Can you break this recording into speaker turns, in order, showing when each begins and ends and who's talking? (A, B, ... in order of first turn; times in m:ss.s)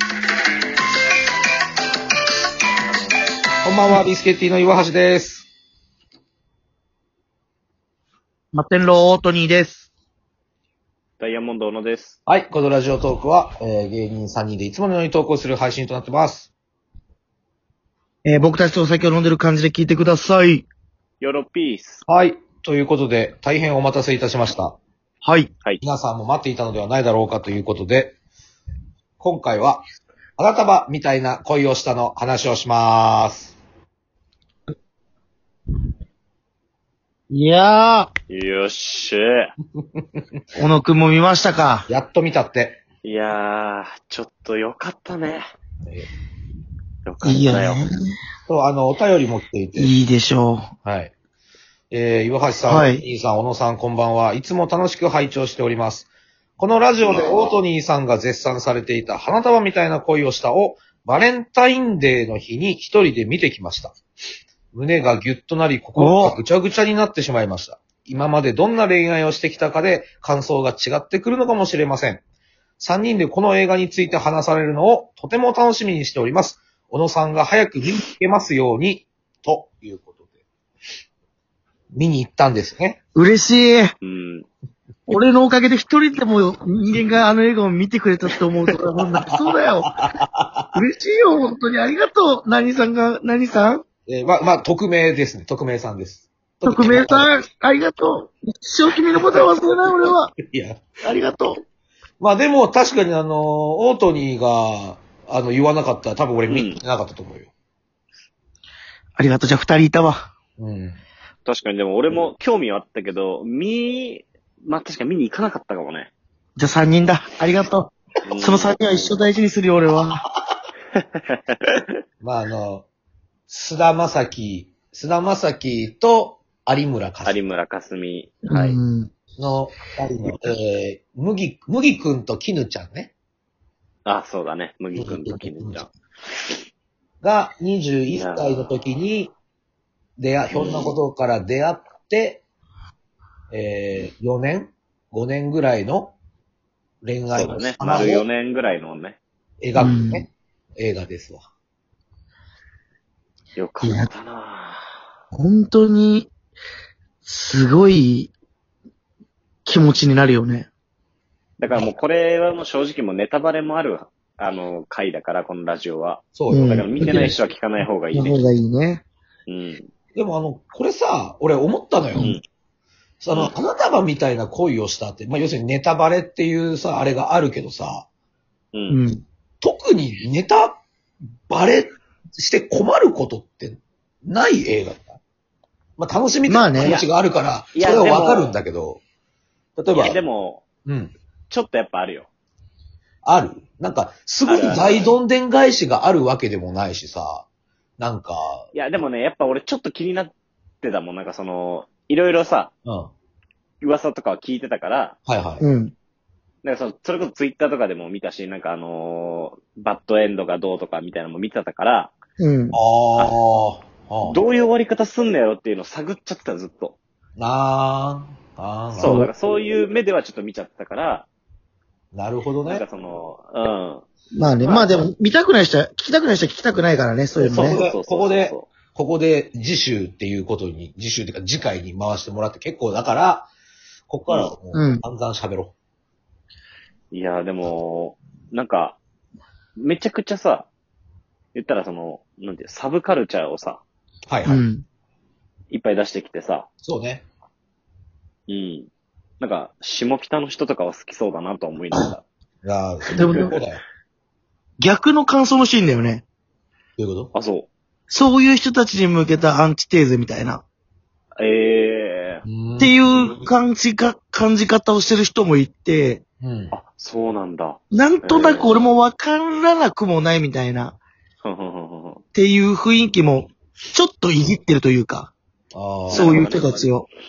0:03.6-0:05.5 A
0:08.5-0:09.9 B
0:11.2-0:12.2 C
0:12.3-0:16.5 A
0:18.2-0:20.6 B
0:21.2-0:22.0 C
0:22.1-0:24.8 A
0:25.2-0:25.5 B
0:25.8-0:28.2 A
0:29.2-0:29.8 A
0:30.4-0:33.5 A
0:37.3-0:38.1 B
0:38.3-0:39.4 C
0:40.6-0:41.9 B
0:41.9-0:42.8 A
0:43.0-0:45.4 C
0:47.0-0:47.8 C
0:47.2-0:47.9 B
0:48.5-0:49.9 A
0:49.8-0:50.7 B
0:50.8-0:51.1 A
0:51.9-1:03.9 A
0:52.7-0:53.0 B
0:57.0-0:57.5 C
1:04.7-1:12.2 A
1:06.0-1:06.4 B
1:12.8-1:20.3 A
1:21.9-1:23.0 A
1:23.1-1:23.9 B
1:24.0-1:24.5 C
1:25.1-1:29.9 B
1:29.1-1:30.7 A
1:30.7-1:33.8 B
1:34.1-1:37.3 A
1:36.6-1:40.3 B
1:39.1-1:39.5 A
1:40.4-1:40.8 A
1:41.0-1:41.6 B
1:42.2-1:47.5 A
1:46.5-1:46.8 C
1:49.2-1:50.3 B
1:50.6-1:51.0 A
1:51.4-1:56.1 C
1:56.6-2:00.2 B
1:58.2-1:59.2 C
2:01.5-2:01.8 C
2:02.2-2:02.8 A
2:03.5-2:07.4 A
2:07.2-2:08.8 C
2:08.5-2:09.1 B
2:09.4-2:13.1 A
2:14.0-2:15.9 C
2:15.0-2:15.8 A
2:17.2-2:19.3 A
2:18.1-2:18.8 C
2:20.2-2:22.4 A
2:20.5-2:20.9 C
2:23.5-2:26.1 A
2:27.0-2:28.2 A
2:27.3-2:29.2 C
2:29.6-2:30.2 A
2:29.8-2:30.3 B
2:30.8-2:31.4 A
2:33.6-2:34.8 C
2:33.8-2:34.1 B
2:35.3-2:36.3 B
2:37.2-2:38.3 B
2:39.6-2:40.7 B
2:41.6-2:48.4 C
2:46.3-2:46.8 A
2:46.5-2:47.4 B
2:48.1-2:49.0 B
2:49.5-2:49.9 C
2:50.1-2:52.3 A
2:53.2-2:58.1 A
2:58.7-2:59.0 C
2:58.9-2:59.2 B
2:59.6-3:00.8 A
3:01.5-3:05.2 A
3:06.0-3:09.0 A
3:06.5-3:06.9 B
3:06.8-3:07.0 C
3:07.7-3:08.5 C
3:09.8-3:10.2 A
3:09.9-3:10.6 C
3:10.8-3:11.1 A
3:11.5-3:12.3 C
3:13.2-3:17.4 A
3:14.4-3:15.1 C
3:18.0-3:18.7 A
3:18.7-3:22.7 C
3:22.8-3:23.1 A
3:23.8-3:25.2 C
3:25.3-3:25.6 A
3:25.6-3:25.9 B
3:26.6-3:32.1 C
3:32.4-3:32.8 B
3:32.7-3:34.4 A
3:34.2-3:37.0 C
3:37.4-3:39.2 A
3:38.9-3:41.3 C
3:39.0-3:39.3 B
3:42.1-3:42.8 A
3:42.7-3:44.0 C
3:44.3-3:47.8 B
3:44.6-3:45.0 C
3:47.4-3:48.7 C
3:47.4-3:53.5 A
3:54.1-3:55.7 A
3:54.3-3:54.5 C
3:54.7-3:55.0 B
3:57.1-3:59.0 C
3:59.8-4:00.7 C
4:01.5-4:03.8 C
4:04.3-4:04.6 A
4:04.4-4:04.8 B
4:05.7-4:06.7 C
4:06.8-4:07.2 A
4:08.5-4:08.9 C
4:09.4-4:12.2 C
4:12.6-4:13.8 A
4:13.0-4:13.6 C
4:13.2-4:13.5 B
4:14.8-4:16.2 B
4:17.0-4:17.3 A
4:17.3-4:17.7 C
4:18.1-4:20.6 B
4:21.4-4:22.4 C
4:22.4-4:23.0 A
4:22.8-4:26.2 B
4:26.4-4:26.7 A
4:26.7-4:28.8 C
4:27.9-4:31.0 B
4:31.4-4:32.2 C
4:32.3-4:35.3 B
4:35.7-4:36.5 A
4:36.1-4:36.9 C
4:36.1-4:37.1 B